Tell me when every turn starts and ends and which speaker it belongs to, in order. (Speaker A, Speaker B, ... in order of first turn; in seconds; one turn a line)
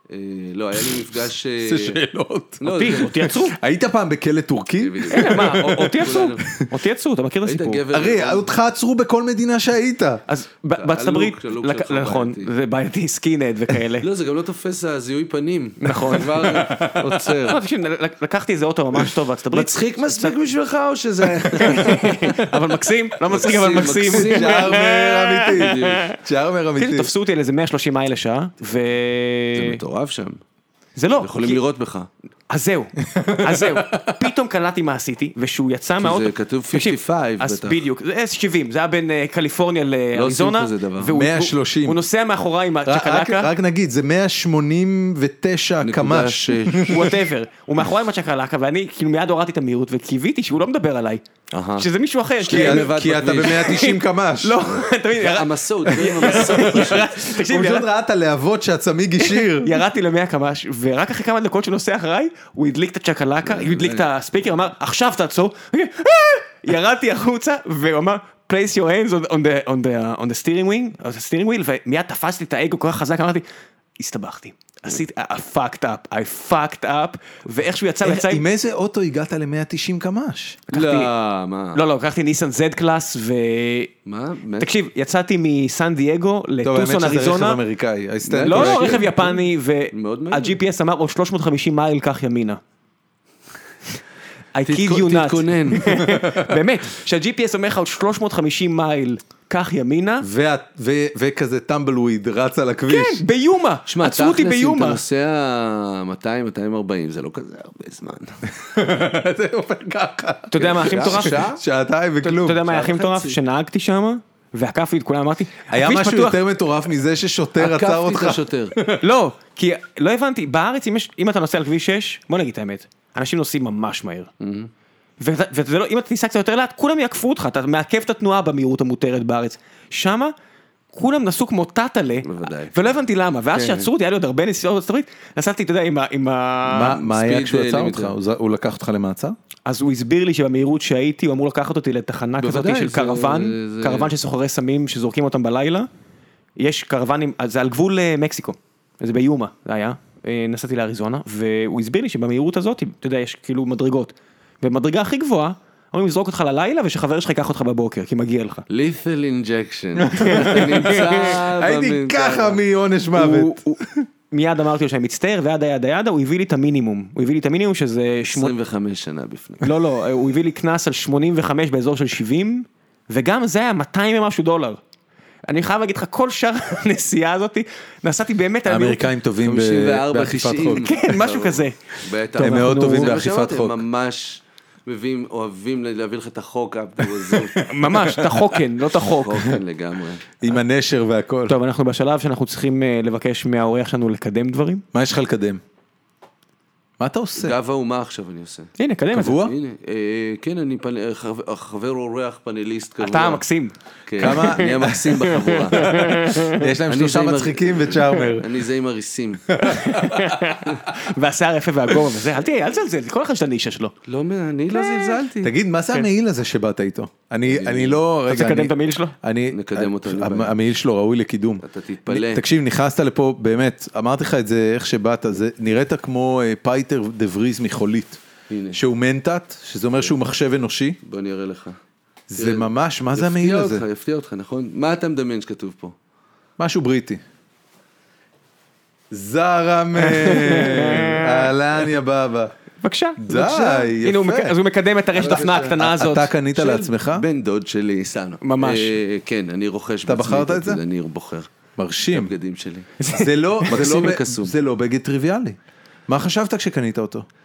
Speaker A: 0.1-2.0
Speaker B: 0.8-6.7
Speaker A: 2.6-3.3
Speaker C: 2.6-3.6
Speaker A: 4.8-6.5
Speaker C: 5.1-7.8
Speaker A: 7.5-8.5
Speaker B: 7.9-10.2
Speaker C: 10.3-14.1
Speaker A: 10.7-12.5
Speaker A: 14.0-17.6
Speaker C: 15.8-16.7
Speaker B: 16.6-17.0
Speaker C: 17.3-20.4
Speaker A: 19.5-22.5
Speaker C: 21.6-26.2
Speaker A: 23.3-24.9
Speaker B: 24.1-27.1
Speaker A: 25.5-26.1
Speaker C: 26.8-29.8
Speaker A: 29.6-30.4
Speaker C: 31.0-31.6
Speaker A: 31.2-32.1
Speaker C: 32.5-43.5
Speaker B: 33.1-34.3
Speaker A: 36.0-37.8
Speaker A: 40.1-41.1
Speaker B: 41.1-42.0
Speaker B: 42.9-47.2
Speaker A: 45.8-47.1
Speaker C: 46.9-51.2
Speaker A: 51.5-51.9
Speaker C: 51.8-57.9
Speaker A: 52.4-53.8
Speaker B: 52.5-54.6
Speaker A: 55.2-57.2
Speaker B: 56.1-59.8
Speaker C: 59.2-73.5
Speaker A: 63.5-64.1
Speaker C: 74.0-78.4
Speaker B: 78.0-80.6
Speaker C: 80.7-81.1
Speaker A: 80.7-81.8
Speaker C: 81.8-84.0
Speaker A: 84.1-84.7
Speaker C: 84.6-87.6
Speaker B: 86.6-89.3
Speaker A: 88.2-89.4
Speaker C: 88.4-92.6
Speaker A: 89.9-90.6
Speaker C: 94.5-100.3
Speaker A: 94.7-96.0
Speaker B: 96.0-96.6
Speaker B: 100.2-103.2
Speaker C: 102.9-105.0
Speaker A: 103.9-108.5
Speaker B: 108.5-112.6
Speaker C: 110.5-111.5
Speaker A: 110.6-111.6
Speaker C: 112.2-116.4
Speaker A: 112.4-113.4
Speaker B: 115.7-119.0
Speaker A: 117.6-118.8
Speaker C: 119.0-124.3
Speaker A: 124.4-124.7
Speaker C: 125.2-130.3
Speaker C: 130.9-137.0
Speaker A: 132.2-132.9
Speaker A: 133.5-133.9
Speaker B: 136.7-139.4
Speaker A: 136.7-138.1
Speaker C: 139.7-145.9
Speaker A: 142.4-144.1
Speaker C: 146.6-158.7
Speaker A: 158.7-162.6
Speaker B: 160.0-163.8
Speaker C: 160.2-161.4
Speaker C: 163.1-168.6
Speaker A: 168.3-169.7
Speaker C: 169.6-174.8
Speaker C: 175.5-179.1
Speaker B: 178.7-180.9
Speaker A: 179.4-187.6
Speaker C: 180.7-183.2
Speaker B: 182.4-183.8
Speaker B: 187.0-188.6
Speaker C: 187.6-189.6
Speaker A: 189.1-190.2
Speaker B: 190.4-191.6
Speaker C: 191.5-194.8
Speaker B: 194.9-195.6
Speaker B: 197.0-197.6
Speaker A: 197.4-198.7
Speaker C: 198.8-199.5
Speaker B: 199.1-199.6
Speaker A: 199.3-203.4
Speaker C: 203.0-205.2
Speaker A: 204.1-206.1
Speaker B: 204.2-205.2
Speaker B: 205.7-208.5
Speaker C: 205.7-206.7
Speaker A: 206.9-209.6
Speaker B: 209.5-210.8
Speaker C: 209.6-213.9
Speaker A: 214.1-215.5
Speaker C: 214.7-215.2
Speaker B: 215.4-228.2
Speaker A: 217.5-218.0
Speaker C: 218.3-219.2
Speaker A: 219.5-220.6
Speaker A: 221.6-222.5
Speaker A: 228.5-228.8
Speaker B: 228.7-231.0
Speaker A: 231.0-231.8
Speaker B: 232.3-233.8
Speaker A: 232.4-236.0
Speaker B: 236.6-237.2
Speaker B: 239.1-242.5
Speaker C: 240.0-241.5
Speaker C: 242.8-246.3
Speaker B: 243.2-244.6
Speaker A: 245.1-245.8
Speaker B: 245.2-247.2
Speaker A: 246.5-251.5
Speaker C: 248.4-249.0
Speaker B: 250.1-250.8
Speaker B: 251.8-252.3
Speaker A: 252.1-252.9
Speaker C: 253.0-253.9
Speaker B: 253.1-257.3
Speaker A: 253.7-254.5